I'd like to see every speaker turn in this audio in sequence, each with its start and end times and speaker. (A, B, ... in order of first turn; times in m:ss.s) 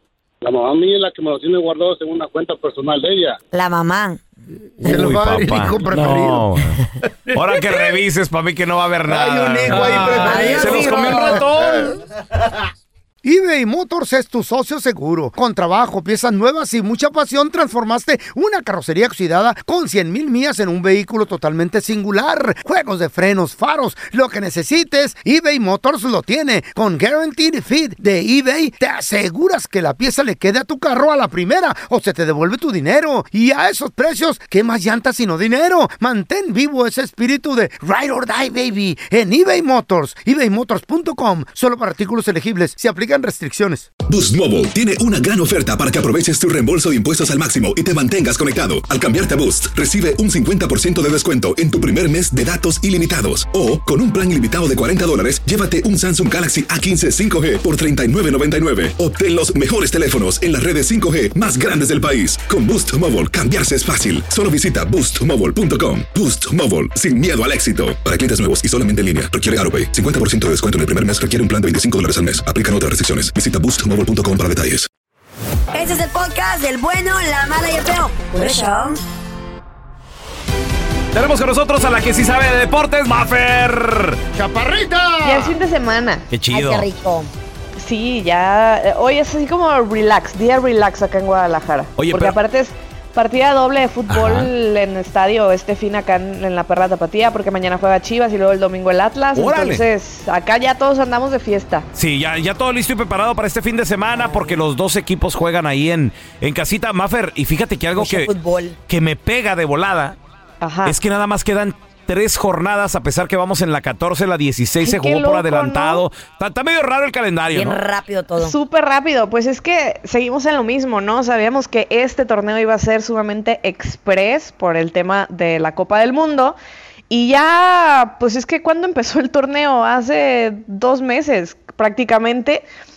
0:00.4-0:03.4 A
0:03.5-0:04.2 B
0:04.8-0:06.5 C
0:04.8-0:06.8 D
0:07.3-0:11.9 D
0:09.1-0:11.9 C
0:10.1-0:11.4 B
0:13.2-0:43.9 C
0:44.1-1:14.9 E
1:15.7-1:19.0 B
1:21.1-1:24.2 D
1:24.3-1:25.5 C
1:25.2-1:26.2 F
1:26.3-1:26.9 D
1:26.5-1:27.3 B
1:27.8-1:41.9 F
1:32.0-1:32.4 D
1:34.1-1:34.5 D
1:39.3-1:39.8 D
1:41.9-1:48.3 D
1:48.0-1:48.8 B
1:48.9-1:50.2 D
1:50.6-1:51.0 F
1:50.8-1:57.8 D
1:54.8-1:56.0 F
1:57.5-1:58.6 B
1:58.4-2:06.6 F
2:07.1-2:12.6 F